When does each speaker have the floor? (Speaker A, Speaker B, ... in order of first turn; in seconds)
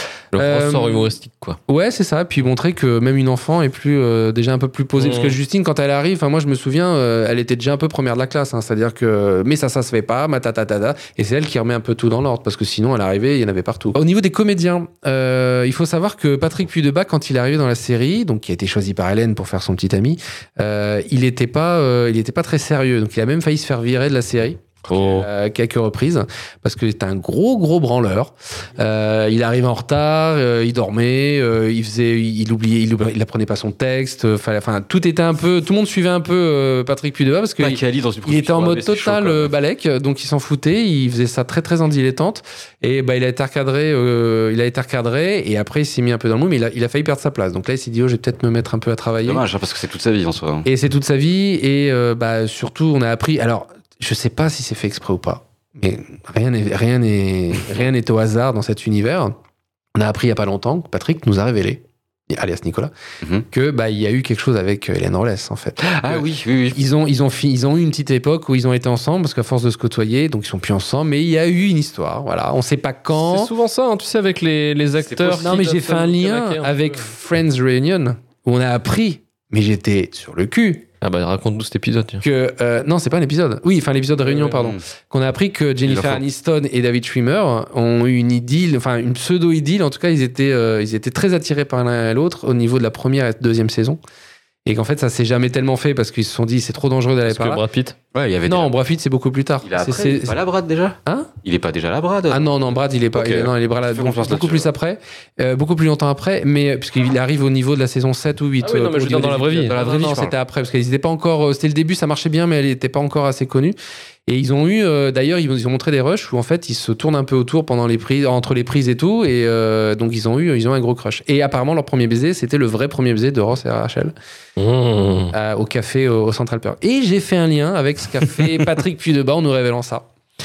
Speaker A: 0.3-1.1, 1.7-49.4, 50.6-59.3, 59.9-62.9, 63.5-73.5, 75.4-80.8, 82.2-94.0, 94.7-97.6, 98.5-100.4, 102.3-113.8, 114.3-124.1, 125.3-130.0
Speaker B: 0.3-1.6, 5.0-5.3, 24.9-25.2, 73.2-77.0, 81.0-82.2, 84.2-84.5, 97.2-98.0, 108.6-109.8, 124.6-125.3
Speaker C: 24.9-25.3, 37.6-39.5, 49.2-50.7, 65.8-66.8, 75.2-75.6, 84.5-84.8, 85.8-86.2, 98.1-98.7, 99.6-102.5, 103.1-104.7, 109.7-110.3